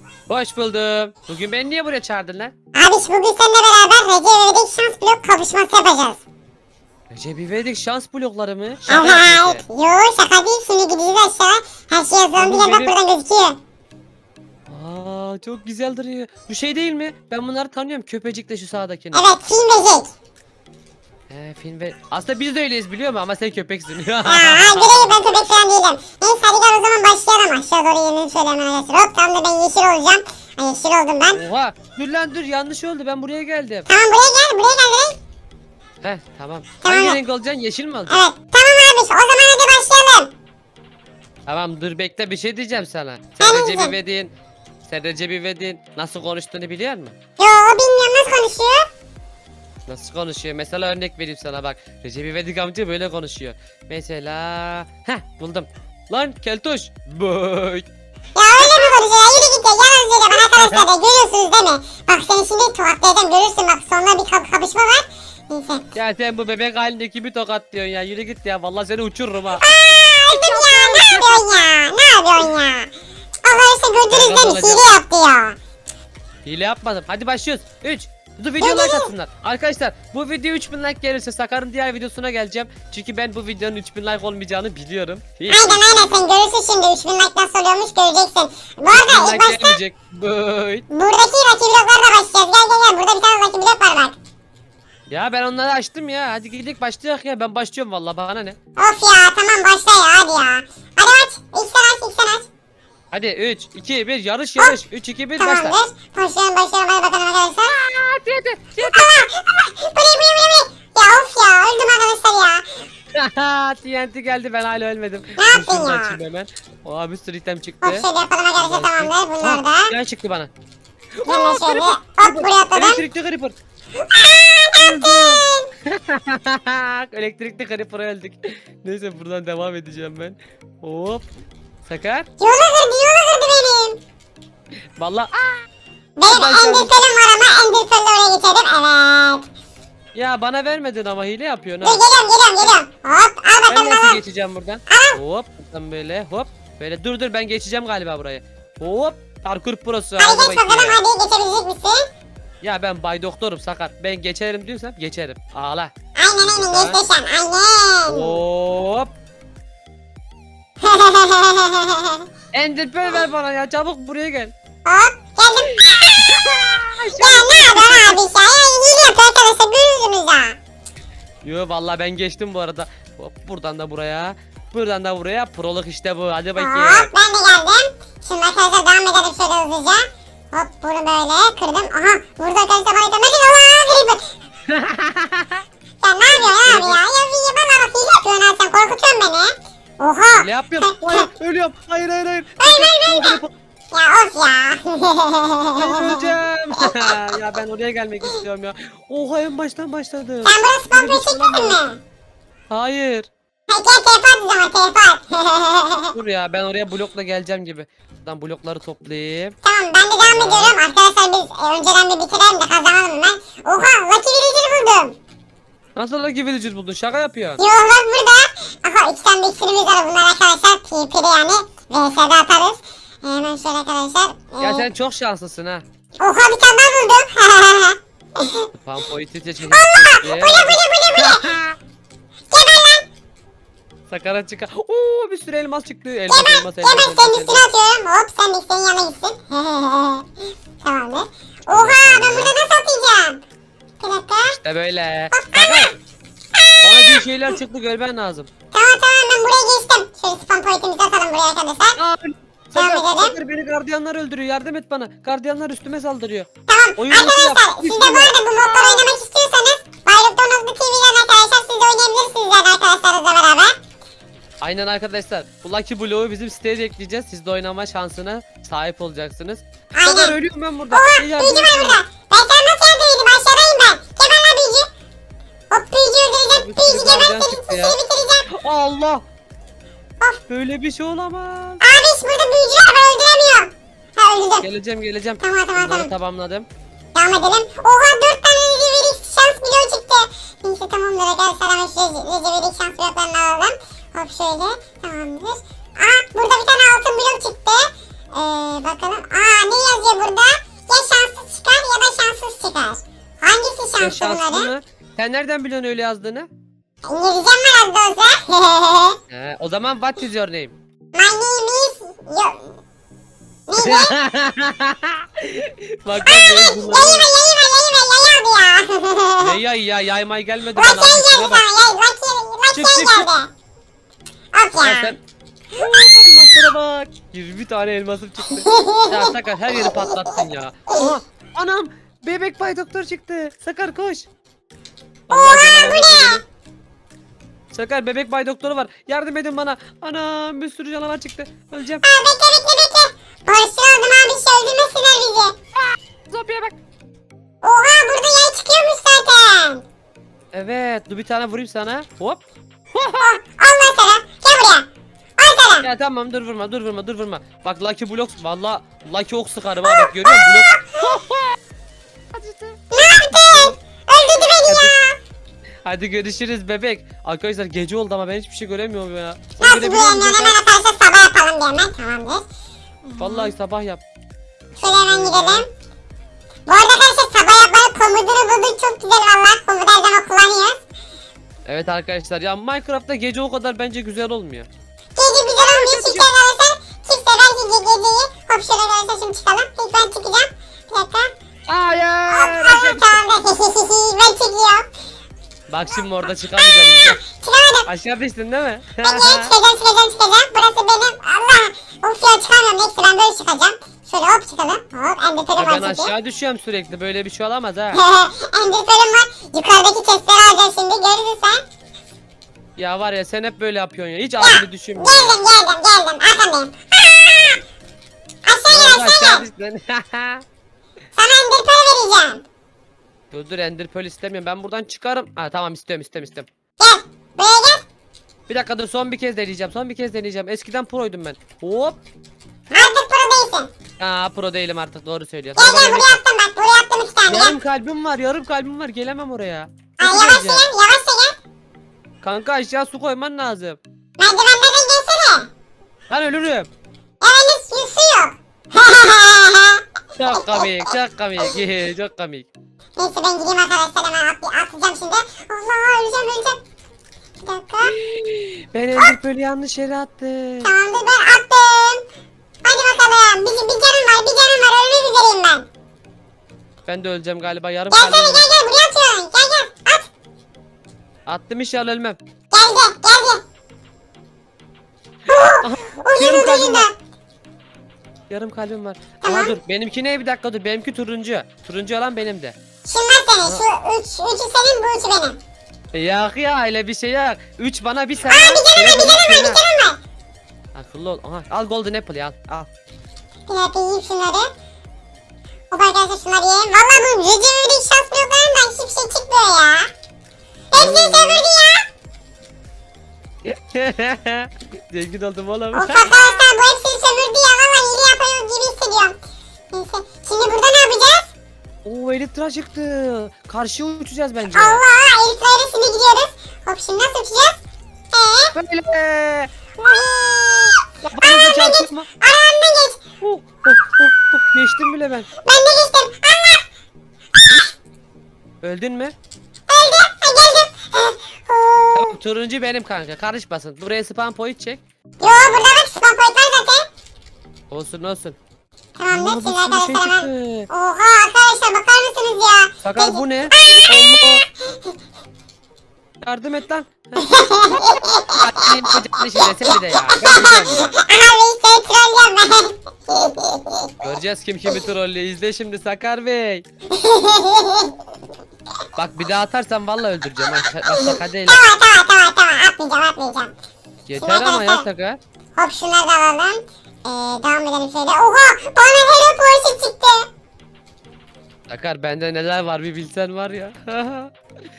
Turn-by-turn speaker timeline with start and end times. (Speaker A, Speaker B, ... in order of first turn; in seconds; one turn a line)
Speaker A: 0.3-2.5
Speaker B: 2.7-6.2
Speaker A: 7.1-9.6
Speaker B: 8.9-13.6
Speaker A: 12.3-13.0
Speaker A: 14.7-19.3
Speaker B: 19.1-20.1
Speaker A: 21.3-25.2
Speaker B: 24.2-31.4
Speaker A: 31.3-33.9
Speaker B: 33.9-35.2
Speaker A: 36.0-38.2
Speaker B: 36.8-37.2
Speaker B: 38.1-40.3
Speaker A: 41.5-44.3
Speaker B: 43.4-43.9
Speaker A: 44.8-47.1
Speaker B: 47.4-48.8
Speaker A: 49.9-57.9
Speaker B: 58.4-65.9
Speaker A: 58.6-58.9
Speaker A: 60.3-60.9
Speaker A: 66.0-69.6
Speaker B: 69.6-72.9
Speaker A: 70.2-71.7
Speaker B: 73.5-75.6
Speaker A: 74.1-74.9
Speaker A: 76.5-86.1
Speaker B: 78.6-79.1
Speaker B: 85.5-89.8
Speaker A: 88.9-90.8
Speaker B: 90.9-94.2
Speaker A: 95.1-98.6
Speaker B: 98.8-102.5
Speaker A: 103.1-105.8
Speaker B: 105.4-107.8
Speaker A: 107.7-109.1
Speaker B: 108.8-112.6
Speaker A: 113.1-118.0
Speaker B: 115.4-116.2
Speaker B: 117.8-119.9
Speaker A: 118.6-120.5
Speaker A: 121.2-123.5
Speaker B: 121.3-123.0
Speaker B: 124.0-125.7
Speaker A: 124.8-131.3
Speaker A: 131.9-132.3
Speaker B: 132.4-134.0
Speaker A: 135.0-135.5
Speaker B: 136.2-139.4
Speaker A: 136.2-137.0
Speaker A: 140.1-142.1
Speaker B: 141.8-144.2
Speaker A: 143.7-151.0
Speaker B: 144.9-145.2
Speaker B: 150.2-152.0
Speaker A: 152.6-155.9
Speaker B: 156.2-158.4
Speaker A: 156.4-157.0
Speaker A: 158.1-159.1
Speaker B: 160.8-162.2
Speaker A: 162.5-164.5
Speaker B: 164.8-166.1
Speaker A: 165.8-168.2
Speaker B: 167.2-170.6
Speaker A: 171.4-177.1
Speaker B: 176.6-184.2
Speaker A: 184.7-185.6
Speaker B: 186.0-191.3
Speaker A: 186.3-187.0
Speaker A: 190.3-193.5
Speaker B: 192.6-193.4
Speaker B: 193.9-197.2
Speaker A: 195.8-201.8
Speaker B: 200.4-202.0
Speaker A: 202.7-203.3
Speaker B: 203.7-206.1
Speaker A: 206.1-209.6
Speaker B: 209.6-215.2
Speaker A: 210.2-210.8
Speaker A: 215.9-217.6
Speaker B: 217.6-224.8
Speaker A: 224.6-225.8
Speaker B: 226.2-228.7
Speaker A: 228.7-231.8
Speaker B: 229.7-231.4
Speaker B: 232.5-233.0
Speaker A: 234.1-237.6
Speaker B: 236.3-240.3
Speaker B: 240.8-243.4
Speaker A: 241.7-242.5
Speaker B: 244.0-244.6
Speaker A: 244.4-245.9
Speaker B: 245.3-245.9
Speaker B: 246.7-247.2
Speaker A: 246.8-248.5
Speaker B: 248.7-252.0
Speaker A: 252.0-259.1
Speaker B: 252.8-253.3
Speaker B: 256.7-263.8
Speaker A: 264.6-272.0
Speaker B: 269.9-270.4
Speaker B: 270.9-274.9
Speaker B: 275.7-278.5
Speaker A: 276.5-278.0
Speaker A: 278.5-279.2
Speaker A: 280.5-281.8
Speaker B: 281.8-284.7
Speaker A: 284.6-286.7
Speaker B: 285.4-286.1
Speaker B: 287.1-304.7
Speaker A: 304.0-306.5
Speaker B: 307.1-309.2
Speaker A: 309.3-310.8
Speaker B: 311.1-312.7
Speaker B: 313.7-314.1
Speaker A: 313.8-317.3
Speaker B: 316.2-319.6
Speaker A: 319.4-321.7
Speaker B: 320.8-323.5
Speaker A: 322.7-323.3
Speaker B: 324.5-325.1
Speaker A: 324.8-325.2
Speaker A: 325.7-334.3
Speaker B: 328.5-330.2
Speaker A: 335.3-336.4
Speaker B: 335.3-336.4
Speaker A: 337.7-342.0
Speaker B: 342.0-345.6
Speaker A: 346.3-346.8
Speaker B: 347.6-349.9
Speaker A: 350.5-352.4
Speaker A: 352.9-353.4
Speaker B: 353.2-355.9
Speaker A: 355.8-361.6
Speaker B: 359.9-360.8
Speaker A: 362.3-363.8
Speaker B: 362.9-365.2
Speaker A: 364.4-364.9
Speaker A: 365.9-370.6
Speaker B: 369.6-372.4
Speaker B: 373.1-373.5
Speaker A: 373.2-374.0
Speaker B: 374.8-375.7
Speaker A: 375.1-375.7
Speaker B: 376.7-380.8
Speaker A: 381.7-384.7
Speaker B: 385.2-391.3
Speaker A: 385.6-386.3
Speaker A: 391.7-393.2
Speaker B: 392.3-394.9
Speaker A: 395.7-397.2
Speaker B: 396.6-397.9
Speaker A: 397.9-399.5
Speaker B: 399.1-406.1
Speaker A: 405.6-408.0
Speaker B: 407.9-411.6
Speaker A: 412.8-415.4
Speaker B: 414.4-417.6
Speaker B: 418.5-419.4
Speaker A: 418.7-420.4
Speaker B: 421.2-422.4
Speaker A: 423.3-426.5
Speaker B: 426.8-427.8
Speaker A: 428.5-432.0
Speaker B: 432.7-433.7
Speaker A: 434.0-436.2
Speaker B: 435.6-437.6
Speaker A: 437.3-440.7
Speaker B: 440.0-441.4
Speaker A: 442.2-443.8
Speaker B: 444.2-445.5
Speaker A: 446.1-446.7
Speaker B: 447.2-449.8
Speaker A: 450.2-452.5
Speaker B: 450.5-450.8
Speaker B: 453.0-456.6
Speaker B: 457.4-457.9
Speaker A: 457.9-460.7
Speaker B: 460.6-462.0
Speaker B: 462.6-465.7
Speaker A: 466.9-468.5
Speaker B: 467.9-470.1
Speaker A: 471.3-472.2
Speaker B: 472.5-473.4
Speaker B: 475.3-476.9
Speaker A: 475.6-476.9
Speaker A: 478.3-482.6
Speaker B: 479.2-479.6
Speaker B: 482.9-485.4
Speaker A: 485.9-489.6
Speaker B: 488.2-490.0
Speaker A: 490.8-492.7
Speaker B: 493.5-494.5
Speaker B: 495.7-499.9
Speaker B: 500.7-501.9
Speaker A: 500.7-501.5
Speaker A: 503.4-506.3
Speaker B: 505.7-509.2
Speaker B: 509.7-511.3
Speaker A: 511.8-514.8
Speaker B: 514.5-517.5
Speaker B: 518.1-518.5
Speaker A: 518.5-519.5
Speaker B: 519.8-523.0
Speaker A: 521.0-522.1
Speaker A: 523.2-525.3
Speaker B: 525.4-526.6
Speaker A: 528.6-529.1
Speaker B: 529.7-532.1
Speaker A: 531.9-535.6
Speaker B: 535.2-536.9
Speaker A: 537.7-538.4
Speaker B: 539.0-544.2
Speaker A: 539.1-540.7
Speaker A: 542.8-544.4
Speaker A: 546.2-550.9
Speaker B: 547.2-548.6
Speaker B: 549.4-554.0
Speaker A: 554.0-556.6
Speaker B: 556.9-557.9
Speaker A: 559.0-561.6
Speaker B: 560.9-563.5
Speaker A: 564.1-565.2
Speaker B: 564.2-564.8
Speaker B: 565.6-570.3
Speaker A: 571.7-574.3